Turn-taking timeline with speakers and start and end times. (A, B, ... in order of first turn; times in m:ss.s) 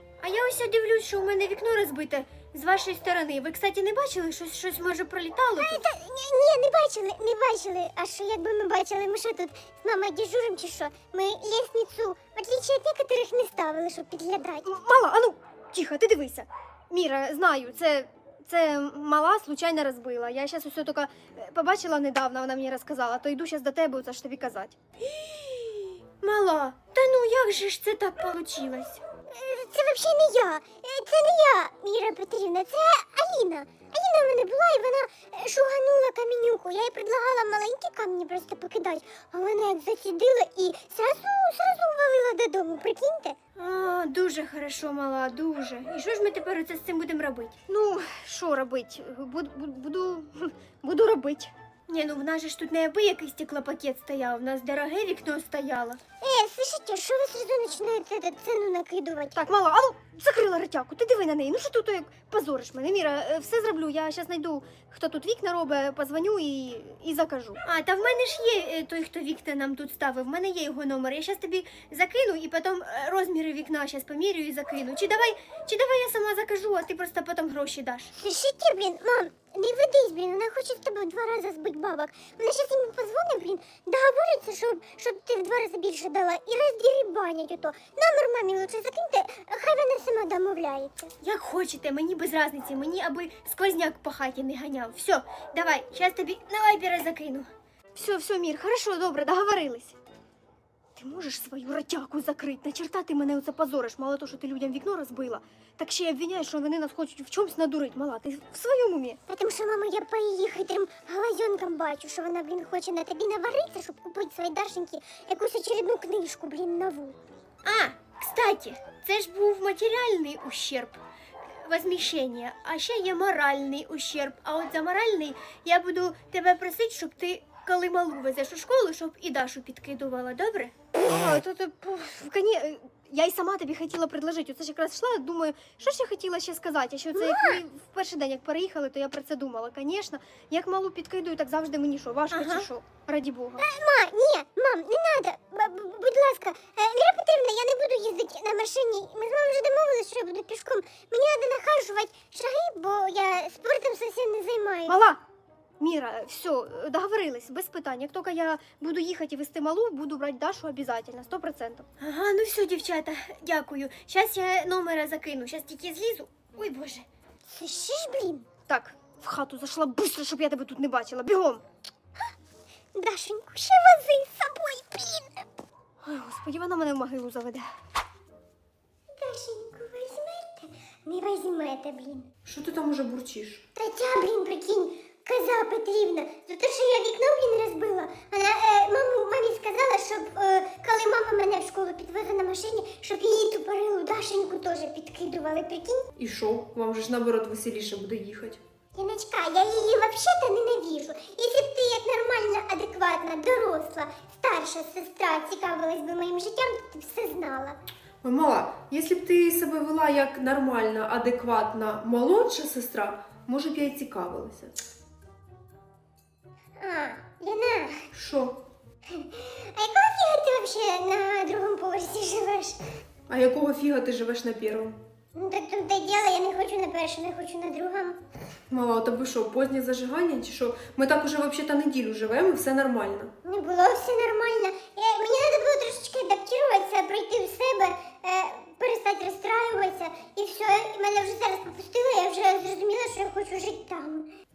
0:00.2-0:05.8 A
0:05.6-0:14.7 B
0:14.6-0:29.0 A
0:29.3-0:43.4 B
0:43.6-0:56.0 A
0:56.2-0:59.4 B
0:59.4-1:18.1 A
1:18.2-1:31.1 B
1:31.2-1:40.0 A
1:41.0-1:49.2 A
1:49.3-1:57.2 B
1:57.6-2:01.0 A
2:01.6-2:23.6 A
2:22.3-2:22.7 B
2:23.6-2:35.0 B
2:34.9-2:35.2 A
2:35.8-2:47.0 A
2:47.5-2:48.5 B
2:48.7-2:51.6 A
2:52.9-2:55.4 B
2:56.0-2:57.7 A
2:59.1-3:02.3 B
3:02.4-3:03.6 C
3:03.7-3:16.1 B
3:16.2-3:18.6 C
3:18.9-3:27.8 B
3:28.2-3:34.7 C
3:36.8-3:38.1 B
3:38.1-3:38.6 C
3:39.1-3:42.8 B
3:43.3-3:45.0 C
3:45.3-3:48.2 B
3:48.7-3:53.3 C
3:53.4-4:04.3 B